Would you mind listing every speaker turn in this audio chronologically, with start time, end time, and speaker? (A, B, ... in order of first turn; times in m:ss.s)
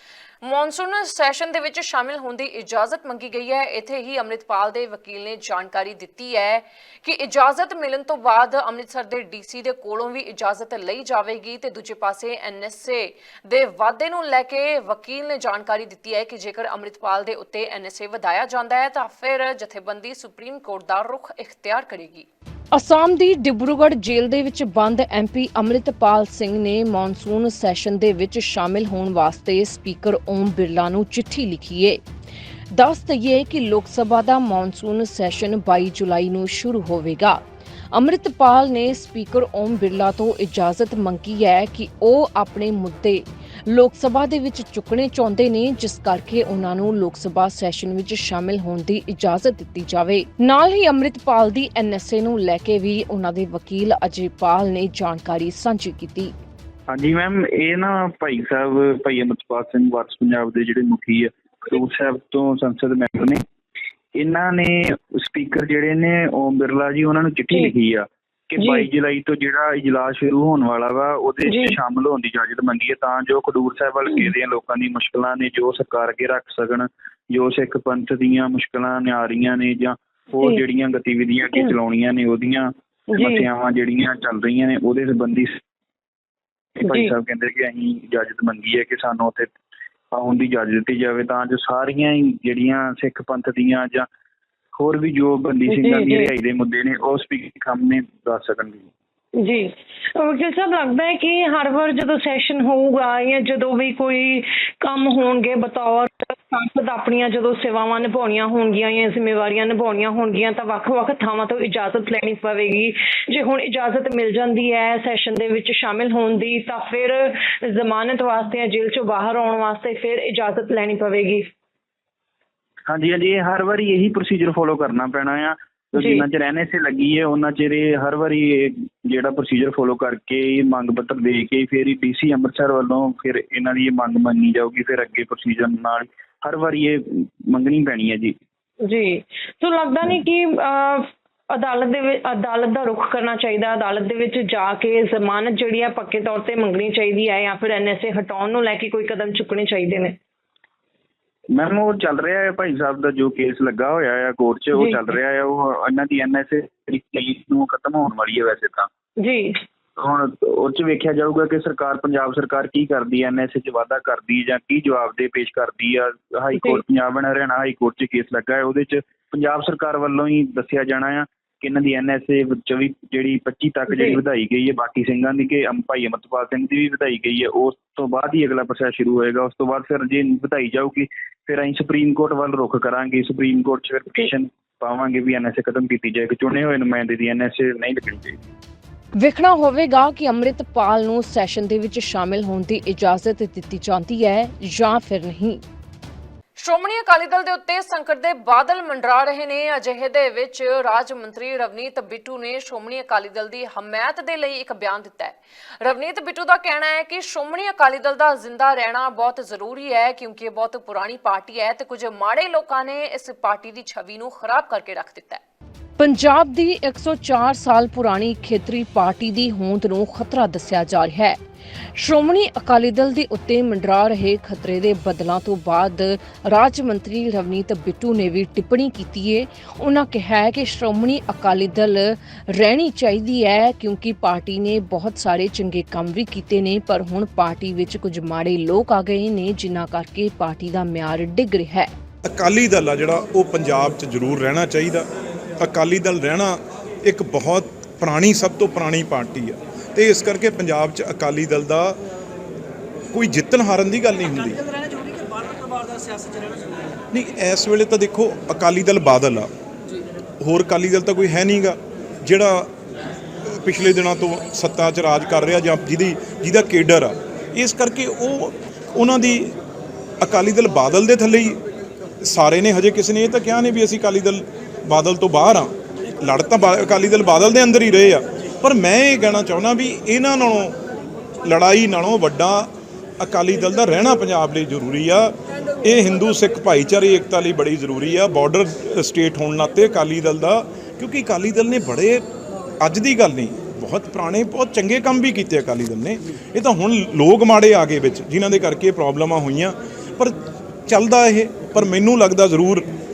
0:00.4-0:32.0 A
0:32.7-0:56.3 A
0:56.9-1:03.4 B
1:04.2-1:25.6 B
1:08.6-1:08.9 C
1:11.4-1:11.8 C
1:23.1-1:23.4 C
1:26.8-1:27.1 C
1:26.8-1:29.5 B
1:30.1-1:34.1 B
1:34.8-1:38.9 B
1:35.7-1:36.3 C
1:39.4-2:01.5 C
2:02.9-2:18.4 B
2:06.0-2:06.2 C
2:18.8-2:30.2 C
2:31.5-2:38.9 B
2:34.8-2:35.0 C
2:39.2-2:39.6 C
2:40.0-3:08.4 B
2:53.9-2:54.2 C
3:09.2-3:15.6 A
3:16.6-3:35.4 A
3:36.0-3:41.4 A
3:42.0-4:01.9 A
4:02.2-4:05.1 D
4:05.6-4:12.0 D
4:13.1-4:14.6 D
4:17.1-4:19.5 D
4:20.4-4:22.7 D
4:23.5-4:29.5 D
4:30.2-4:31.6 D
4:32.2-4:40.8 D
4:41.4-4:52.2 D
4:52.8-5:02.9 D